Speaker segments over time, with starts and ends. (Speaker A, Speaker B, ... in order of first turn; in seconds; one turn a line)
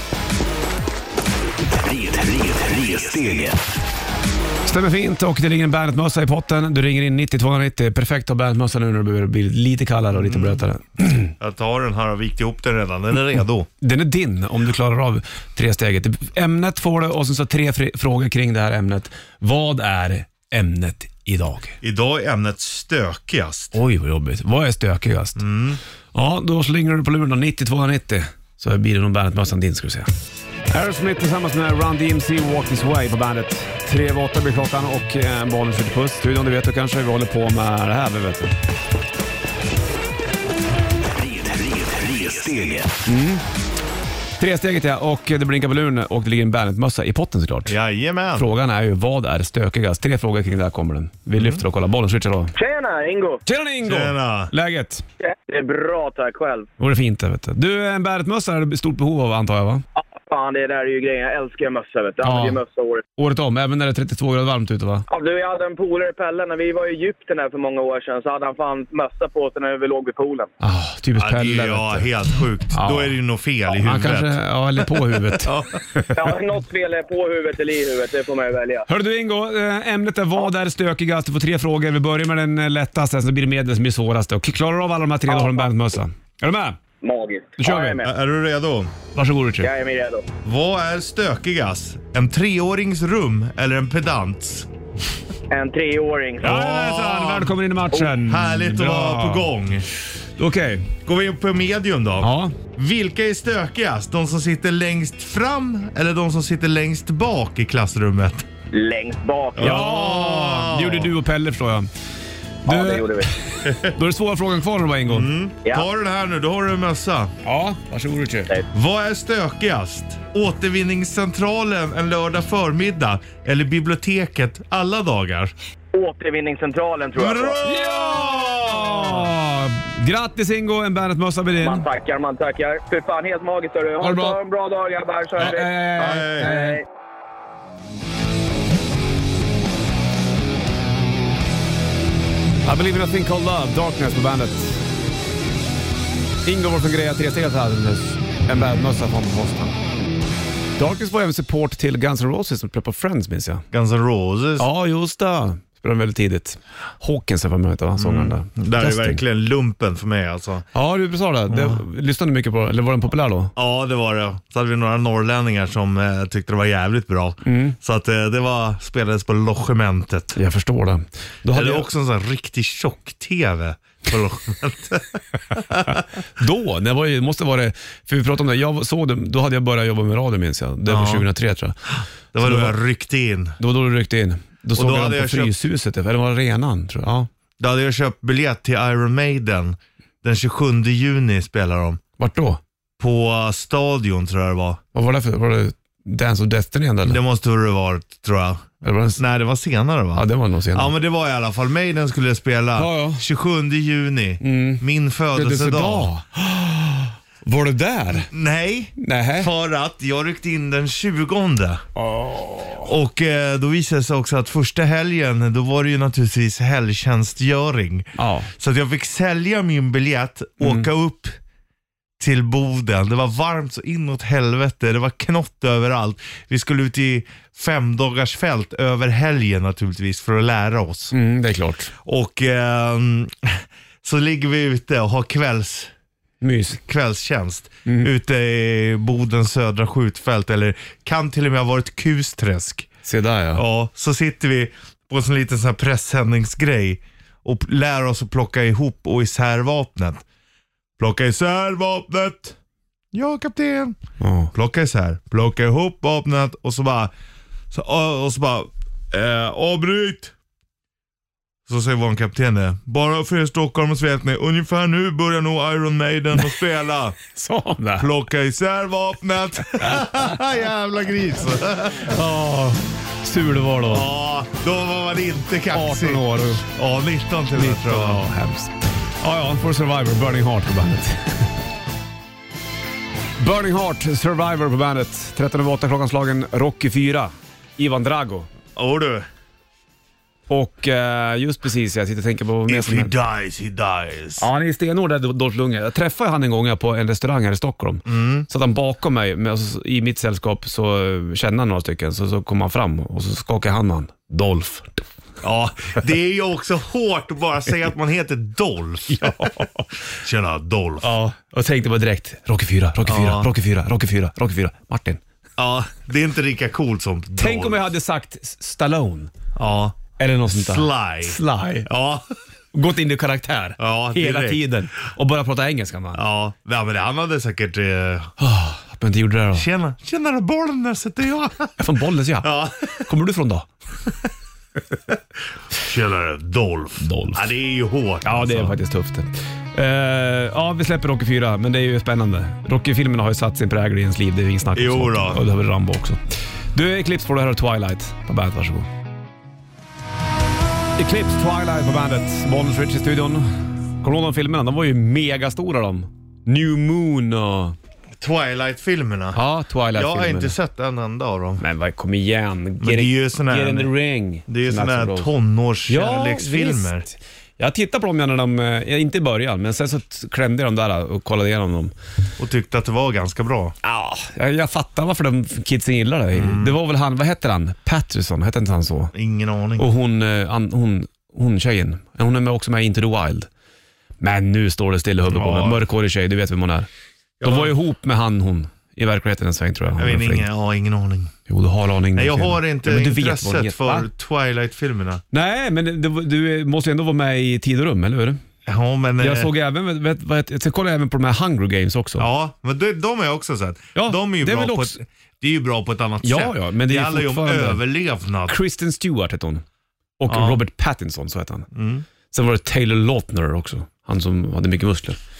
Speaker A: 1.8-3.6
Speaker B: 4.6-11.3
Speaker C: 10.1-10.6
Speaker C: 11.4-13.7
Speaker B: 13.8-21.8
Speaker C: 21.8-23.7
Speaker B: 23.7-25.4
Speaker C: 25.4-25.8
Speaker B: 26.1-30.1
Speaker B: 30.7-38.5
Speaker A: 41.1-43.0
Speaker B: 43.0-43.4
Speaker B: 44.4-47.8
Speaker C: 47.6-48.5
Speaker B: 48.3-52.5
Speaker C: 51.3-51.6
Speaker D: 52.5-53.4
Speaker B: 53.5-55.0
Speaker C: 53.8-54.5
Speaker D: 55.2-56.7
Speaker B: 56.8-59.8
Speaker D: 60.1-63.0
Speaker B: 62.2-62.6
Speaker B: 63.2-65.0
Speaker D: 65.1-70.5
Speaker B: 70.6-72.1
Speaker C: 71.1-75.7
Speaker B: 72.7-73.2
Speaker B: 73.8-76.1
Speaker D: 76.1-78.8
Speaker B: 78.9-86.8
Speaker D: 85.3-85.7
Speaker D: 87.0-88.1
Speaker B: 87.6-88.0
Speaker C: 88.0-88.9
Speaker B: 89.1-89.7
Speaker D: 89.6-90.2
Speaker C: 90.4-94.7
Speaker D: 95.5-96.5
Speaker B: 96.4-99.5
Speaker C: 96.4-97.5
Speaker C: 98.2-99.9
Speaker B: 100.4-100.9
Speaker C: 101.0-108.5
Speaker B: 102.2-102.5
Speaker D: 108.7-109.8
Speaker C: 109.5-111.1
Speaker B: 109.6-111.9
Speaker B: 112.6-115.3
Speaker D: 112.7-113.3
Speaker C: 113.6-113.9
Speaker C: 115.1-117.3
Speaker B: 117.4-118.5
Speaker C: 118.7-125.5
Speaker D: 125.9-127.6
Speaker C: 127.2-129.3
Speaker B: 127.6-131.9
Speaker D: 131.6-136.8
Speaker B: 134.0-134.4
Speaker B: 135.3-136.8
Speaker C: 136.0-136.5
Speaker B: 142.6-144.8
Speaker B: 146.4-149.8
Speaker B: 150.8-153.6
Speaker C: 153.7-154.7
Speaker B: 154.6-159.2
Speaker C: 158.0-160.7
Speaker B: 160.7-163.5
Speaker C: 161.5-161.8
Speaker C: 163.6-170.4
Speaker B: 167.4-167.8
Speaker B: 170.3-171.9
Speaker C: 171.5-176.0
Speaker B: 175.9-181.8
Speaker C: 180.9-181.3
Speaker C: 182.3-183.6
Speaker B: 182.4-182.8
Speaker B: 183.6-187.3
Speaker C: 184.7-185.5
Speaker C: 187.6-192.0
Speaker B: 192.2-192.6
Speaker C: 193.0-194.8
Speaker B: 194.9-197.2
Speaker C: 197.0-206.1
Speaker B: 198.8-199.2
Speaker B: 200.1-200.9
Speaker B: 202.8-203.2
Speaker B: 204.4-208.3
Speaker C: 208.2-211.8
Speaker B: 209.0-209.5
Speaker B: 211.9-212.9
Speaker C: 212.8-221.3
Speaker B: 218.2-218.5
Speaker B: 220.6-220.9
Speaker C: 222.2-231.1
Speaker B: 231.1-231.9
Speaker C: 232.0-235.9
Speaker B: 236.4-236.8
Speaker C: 236.8-242.9
Speaker B: 237.8-238.1
Speaker B: 243.0-243.6
Speaker C: 243.5-250.2
Speaker C: 251.0-252.6
Speaker C: 253.1-254.0
Speaker B: 254.2-254.5
Speaker C: 254.5-257.1
Speaker C: 257.7-260.3
Speaker C: 261.7-267.2
Speaker B: 267.3-268.1
Speaker C: 268.0-272.1
Speaker B: 272.0-274.1
Speaker C: 273.9-278.2
Speaker B: 275.7-276.6
Speaker B: 277.5-281.5
Speaker B: 283.4-288.5
Speaker C: 288.8-289.3
Speaker B: 290.5-293.1
Speaker C: 292.7-294.5
Speaker B: 294.4-305.0
Speaker C: 298.1-298.5
Speaker C: 305.4-311.1
Speaker B: 309.1-309.9
Speaker B: 311.0-315.2
Speaker C: 313.0-313.5
Speaker C: 315.6-317.8
Speaker B: 317.4-319.3
Speaker C: 319.6-322.3
Speaker B: 320.2-321.9
Speaker B: 322.7-326.2
Speaker C: 323.8-324.7
Speaker C: 326.1-328.3
Speaker B: 328.4-329.6
Speaker C: 329.5-331.7
Speaker B: 331.8-333.7
Speaker C: 332.4-333.1
Speaker C: 335.7-338.8
Speaker B: 337.0-337.5
Speaker B: 338.2-346.2
Speaker C: 344.7-345.4
Speaker B: 346.7-348.9
Speaker B: 351.0-353.5
Speaker B: 354.0-357.8
Speaker C: 358.2-359.4
Speaker B: 359.3-360.5
Speaker C: 359.9-361.6
Speaker B: 361.6-365.3
Speaker C: 362.8-363.9
Speaker C: 364.5-367.1
Speaker B: 365.9-371.9
Speaker C: 372.4-373.7
Speaker B: 373.8-379.1
Speaker C: 376.3-376.8
Speaker C: 379.1-379.9
Speaker B: 379.8-383.5
Speaker B: 384.2-386.9
Speaker C: 385.3-385.9
Speaker C: 387.4-387.7
Speaker B: 387.4-390.4
Speaker C: 390.0-391.3
Speaker B: 391.5-394.1
Speaker C: 392.1-395.2
Speaker B: 395.3-398.4
Speaker C: 398.6-399.5
Speaker B: 399.2-402.3
Speaker C: 402.2-408.6
Speaker B: 403.9-405.0
Speaker B: 406.2-407.8
Speaker B: 408.5-409.6
Speaker B: 410.2-411.7
Speaker C: 410.3-410.6
Speaker C: 411.7-412.0
Speaker B: 412.3-415.2